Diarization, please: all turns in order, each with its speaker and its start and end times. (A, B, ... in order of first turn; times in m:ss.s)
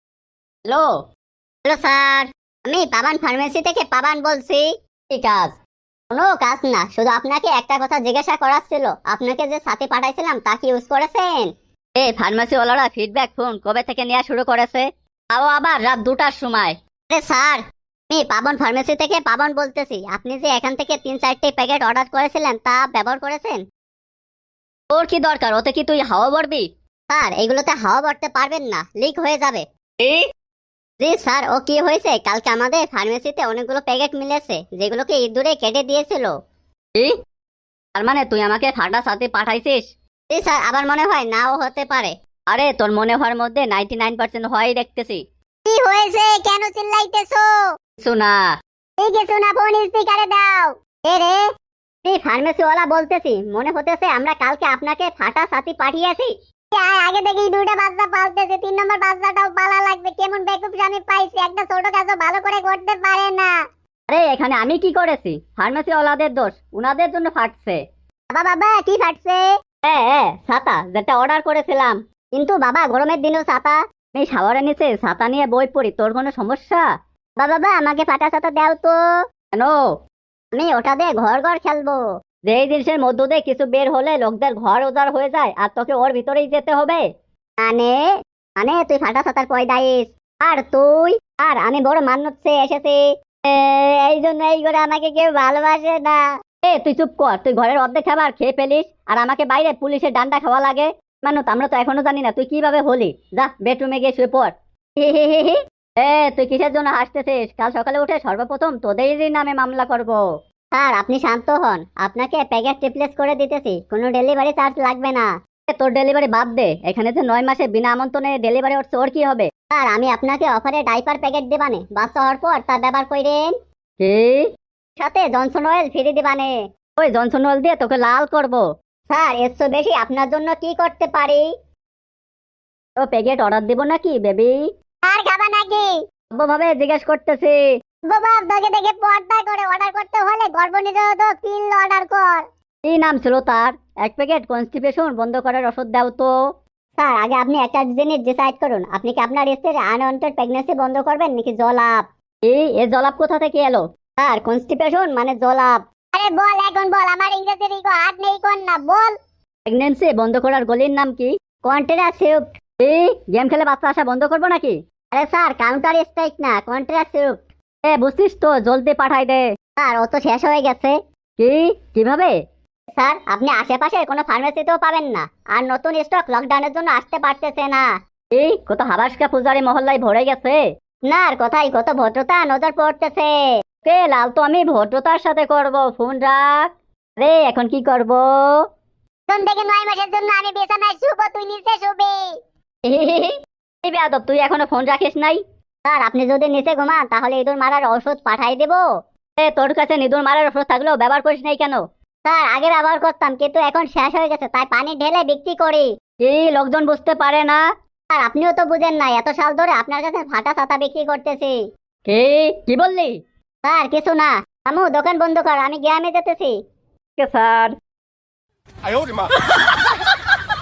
0:01.7-0:04.6 A
0:05.1-0:05.6 B
0:06.1-0:11.5 A
0:12.0-0:16.8 B
0:17.1-0:23.6 A
0:24.9-0:26.7 B
0:27.1-0:29.6 A
0:31.0-0:36.3 A
0:38.0-0:39.9 B
0:40.3-0:42.1 A
0:42.5-0:45.2 B
0:45.7-0:47.5 A
0:48.0-0:48.4 B
0:49.0-0:51.4 A
0:52.0-1:03.5 A
1:04.1-1:07.8 B
1:08.3-1:09.4 A
1:09.8-1:12.0 B
1:12.3-1:13.8 A
1:14.1-1:16.8 B
1:17.4-1:19.0 A
1:20.5-1:22.0 A
1:22.5-1:27.0 B
1:27.6-1:28.0 A
1:28.6-1:36.2 A
1:36.6-1:50.2 B
1:50.7-1:55.3 A
1:55.7-1:59.5 B
1:59.6-2:03.5 A
2:04.0-2:04.5 B
2:05.0-2:06.5 A
2:07.0-2:08.6 B
2:09.1-2:11.4 A
2:13.0-2:14.6 B
2:15.1-2:15.9 A
2:16.3-2:17.6 B
2:18.1-2:22.4 A
2:22.8-2:26.3 B
2:27.0-2:32.0 A
2:32.5-2:33.8 B
2:34.2-2:39.1 A
2:39.7-2:41.3 B
2:41.6-2:42.5 A
2:42.8-2:44.8 B
2:45.1-2:47.4 A
2:47.8-2:49.4 B
2:49.8-2:51.0 A
2:51.4-2:52.3 B
2:53.0-2:57.8 A
2:58.3-3:00.6 B
3:01.1-3:03.3 A
3:03.8-3:08.7 B
3:09.3-3:12.2 A
3:12.8-3:15.4 B
3:15.8-3:18.8 A
3:19.4-3:21.8 B
3:22.2-3:25.9 A
3:26.2-3:27.6 B
3:28.1-3:31.6 A
3:32.1-3:33.2 B
3:33.6-3:36.6 A
3:37.2-3:37.8 B